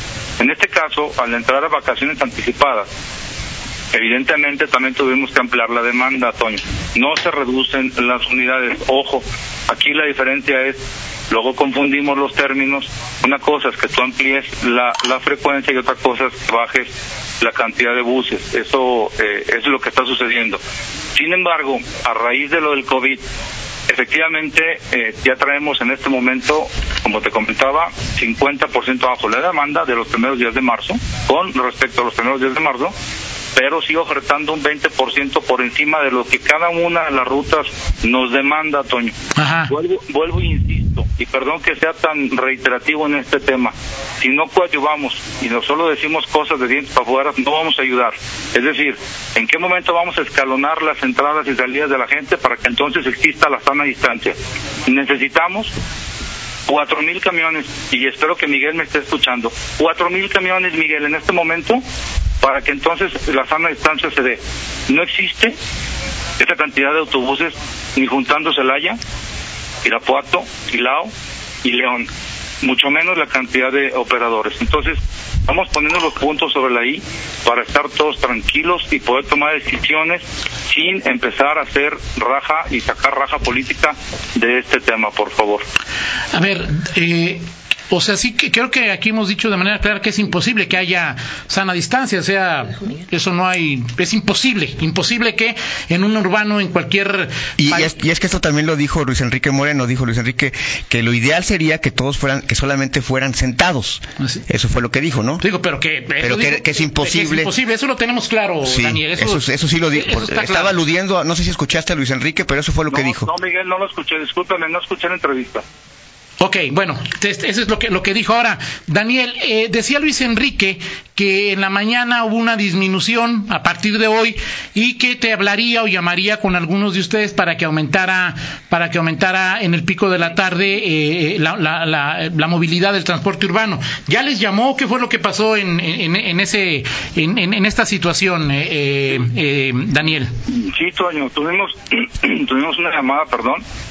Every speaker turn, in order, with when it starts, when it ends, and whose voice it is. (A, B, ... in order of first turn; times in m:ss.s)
0:00.4-0:02.9 A
0:03.9-0:10.8 A
0:11.3-0:16.9 A
0:17.4-0:20.6 A
0:21.2-0:23.2 A
0:23.9-0:32.9 A
0:33.6-0:39.2 A
0:39.4-0:39.7 B
0:39.7-0:54.4 A
0:54.9-0:55.7 A
0:56.7-1:01.8 A
1:02.4-1:05.6 A
1:06.4-1:09.0 A
1:09.8-1:11.1 A
1:11.6-1:12.1 A
1:12.6-1:25.6 A
1:26.3-1:37.9 B
1:37.6-1:45.4 C
1:45.4-1:50.7 B
1:46.2-1:47.5 C
1:48.6-1:53.3 C
1:52.9-1:55.6 A
1:56.4-2:20.3 B
2:20.5-2:23.6 A